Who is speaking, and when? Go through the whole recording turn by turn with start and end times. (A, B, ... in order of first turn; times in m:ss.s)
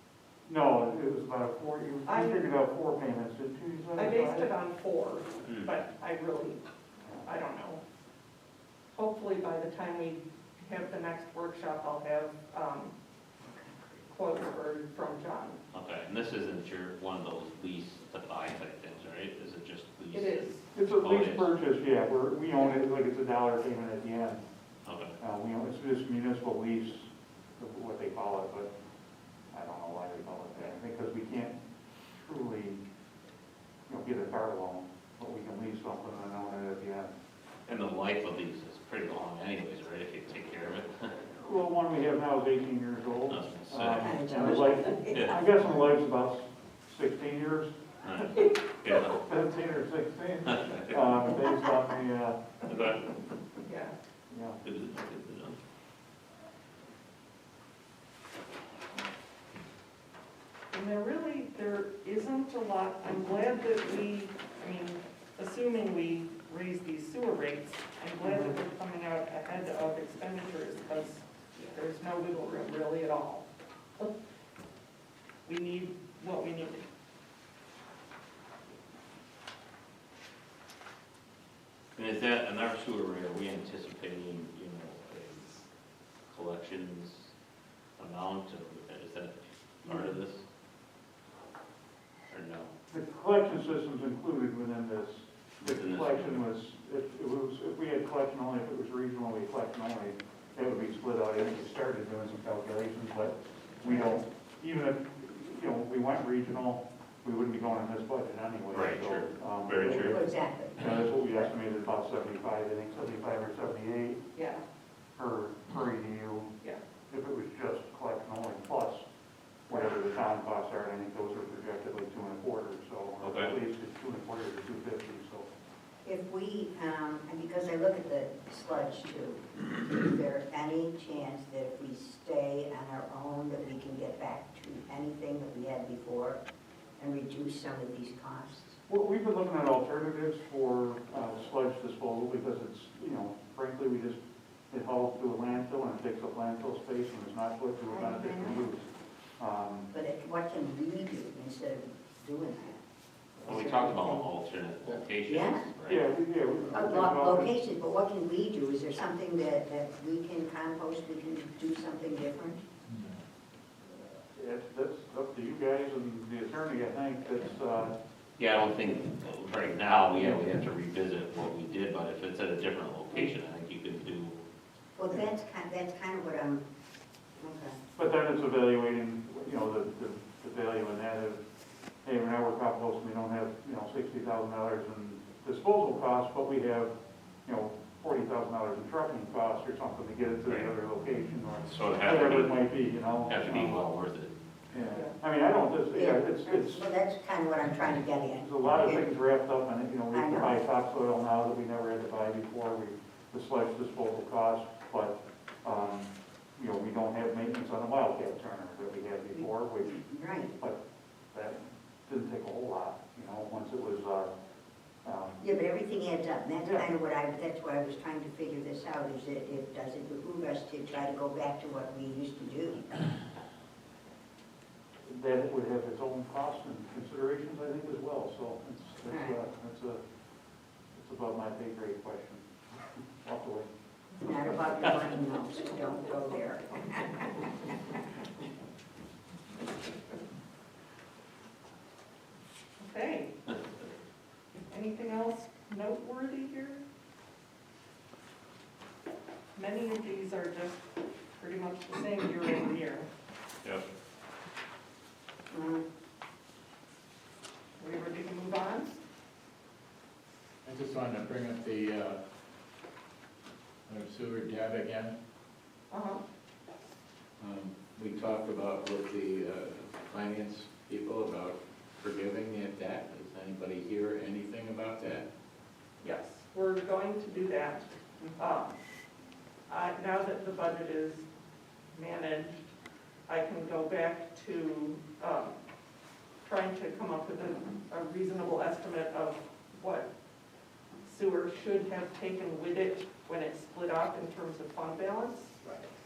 0:00.5-0:04.5 A
0:02.0-0:02.5 B
0:04.0-0:06.6 B
0:05.4-0:05.8 C
0:07.2-0:07.8 B
0:08.9-0:12.9 B
0:13.5-0:14.1 D
0:14.1-0:15.6 B
0:15.7-0:21.5 C
0:20.1-0:20.7 B
0:20.7-0:24.4 A
0:24.8-0:25.2 C
0:25.2-0:28.7 A
0:29.5-0:31.6 A
0:32.1-0:32.8 A
0:33.9-0:37.1 A
0:37.7-0:41.2 C
0:41.4-0:47.7 A
0:43.3-0:45.3 C
0:43.9-0:45.8 D
0:48.0-0:49.2 C
0:49.1-0:52.4 A
0:50.5-0:51.0 C
0:52.7-0:53.1 C
0:53.6-0:54.0 B
0:54.3-0:54.6 A
0:54.6-0:55.6 C
1:00.7-1:13.5 B
1:08.2-1:08.5 A
1:15.4-1:16.8 B
1:22.0-1:25.7 C
1:26.3-1:27.3 C
1:28.0-1:30.5 C
1:32.3-1:32.7 C
1:32.9-1:50.2 A
1:35.6-1:36.4 C
1:43.9-1:44.2 D
1:48.7-1:50.2 C
1:50.0-1:50.8 D
1:50.8-1:54.2 A
1:54.4-1:54.6 B
1:55.2-1:56.5 A
1:57.1-1:59.0 A
1:59.7-2:05.5 A
2:03.2-2:03.5 C
2:06.0-2:16.4 D
2:17.0-2:18.8 D
2:18.9-2:24.2 A
2:24.7-2:28.9 A
2:27.9-2:28.6 D
2:29.4-2:29.9 A
2:29.9-2:32.8 D
2:33.5-2:34.3 D
2:33.5-2:36.1 C
2:35.2-2:35.7 D
2:35.9-2:37.5 A
2:36.7-2:42.6 D
2:42.9-2:43.2 E
2:43.9-2:47.9 A
2:48.4-2:54.4 C
2:55.0-2:56.6 D
2:57.4-2:57.8 D
2:58.0-3:01.4 A
3:02.0-3:06.9 A
3:07.4-3:13.8 A
3:10.5-3:10.7 C
3:11.6-3:12.7 C
3:13.3-3:14.3 C
3:14.7-3:16.9 A
3:14.9-3:15.2 B
3:15.9-3:19.1 D
3:18.4-3:29.9 A
3:20.1-3:20.6 D
3:29.3-3:30.5 D
3:31.3-3:34.3 A
3:35.0-3:35.4 A
3:35.4-3:43.0 D
3:36.6-3:36.9 A
3:45.1-3:50.0 A
3:49.1-3:49.4 D
3:50.9-3:52.5 A
3:53.2-3:53.7 A
3:54.2-3:57.5 D
4:02.8-4:03.4 B
4:04.7-4:06.8 B
4:09.6-4:13.1 B
4:15.5-4:15.8 D
4:17.8-4:19.0 B
4:20.6-4:22.2 E
4:23.9-4:25.2 E
4:25.9-4:26.2 B
4:27.4-4:35.3 E
4:36.0-4:38.8 B
4:39.7-4:41.3 B
4:41.9-4:42.6 B
4:43.3-4:45.6 B
4:46.4-4:50.1 B
4:51.0-4:55.6 B